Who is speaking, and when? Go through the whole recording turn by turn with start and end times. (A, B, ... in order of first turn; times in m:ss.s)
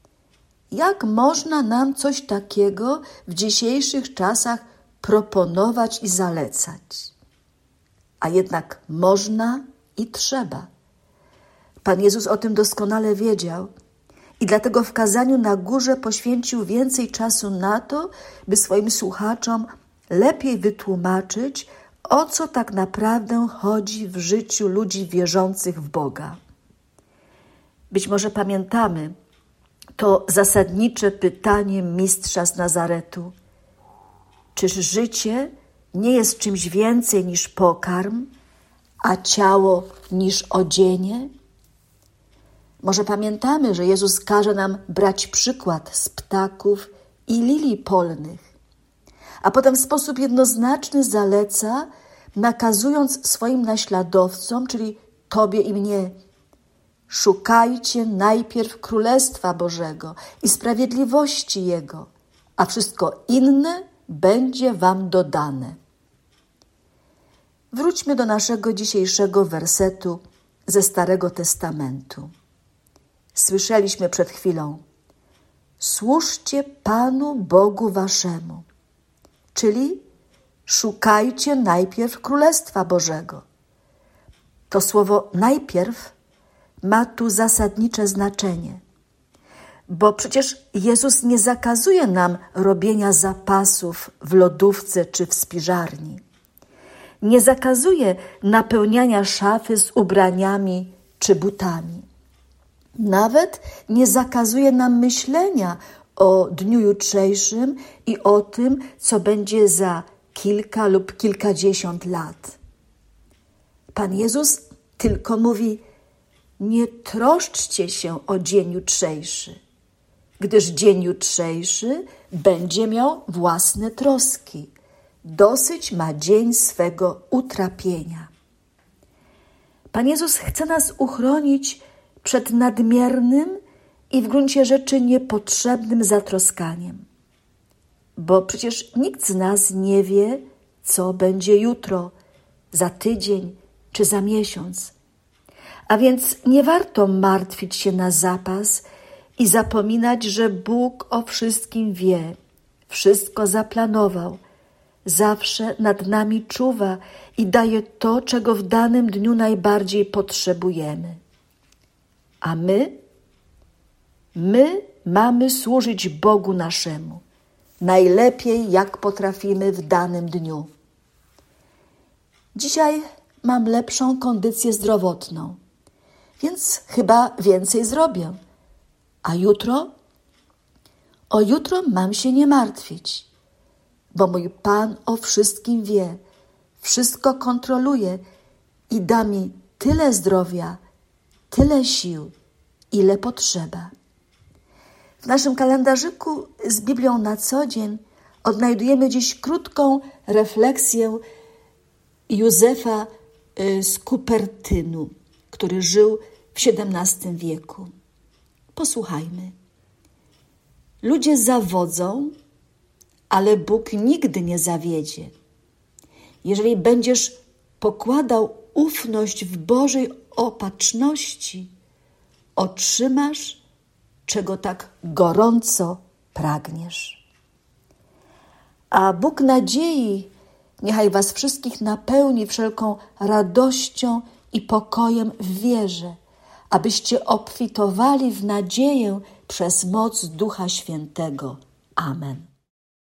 0:00.7-0:07.1 A
0:08.2-0:10.7 A
0:11.8-0:13.7 A
0:14.4-0:26.4 A
0:27.9-0:29.1 A
0:30.0-0:33.3 A
0:34.6-0:38.3 A
0:39.0-0:41.3 A
0:42.8-0:48.5 A
0:49.4-0:56.2 A
0:57.1-1:05.8 A
1:07.7-1:12.3 A
1:13.4-1:14.8 A
1:15.8-1:18.7 A
1:19.5-1:20.0 A
1:20.7-1:23.4 A
1:24.7-1:26.2 A
1:26.8-1:28.8 A
1:29.9-1:36.2 A
1:37.2-1:42.1 A
1:43.0-1:52.6 A
1:53.9-1:55.8 A
1:56.6-1:59.6 A
2:00.4-2:04.7 A
2:05.2-2:08.3 A
2:09.9-2:13.6 A
2:14.1-2:17.1 A
2:18.2-2:22.1 A
2:22.7-2:24.9 A
2:25.9-2:28.8 A
2:29.4-2:32.4 A
2:32.9-2:34.4 A
2:35.1-2:41.2 A
2:42.4-2:43.0 A
2:44.4-2:47.2 A
2:47.8-2:50.7 A
2:52.5-2:55.6 A
2:56.4-2:58.4 A
2:59.2-2:59.9 A
3:01.3-3:03.3 A
3:04.1-3:06.2 A
3:06.8-3:08.2 A
3:08.9-3:10.8 A
3:11.5-3:12.3 A
3:12.9-3:13.9 A
3:15.2-3:21.2 A
3:22.3-3:27.9 A
3:28.7-3:29.6 A
3:31.0-3:32.3 A
3:33.3-3:35.3 A
3:36.4-3:41.7 A
3:42.6-3:43.6 A
3:44.3-3:47.2 A
3:48.9-3:56.2 A
3:56.7-4:02.5 A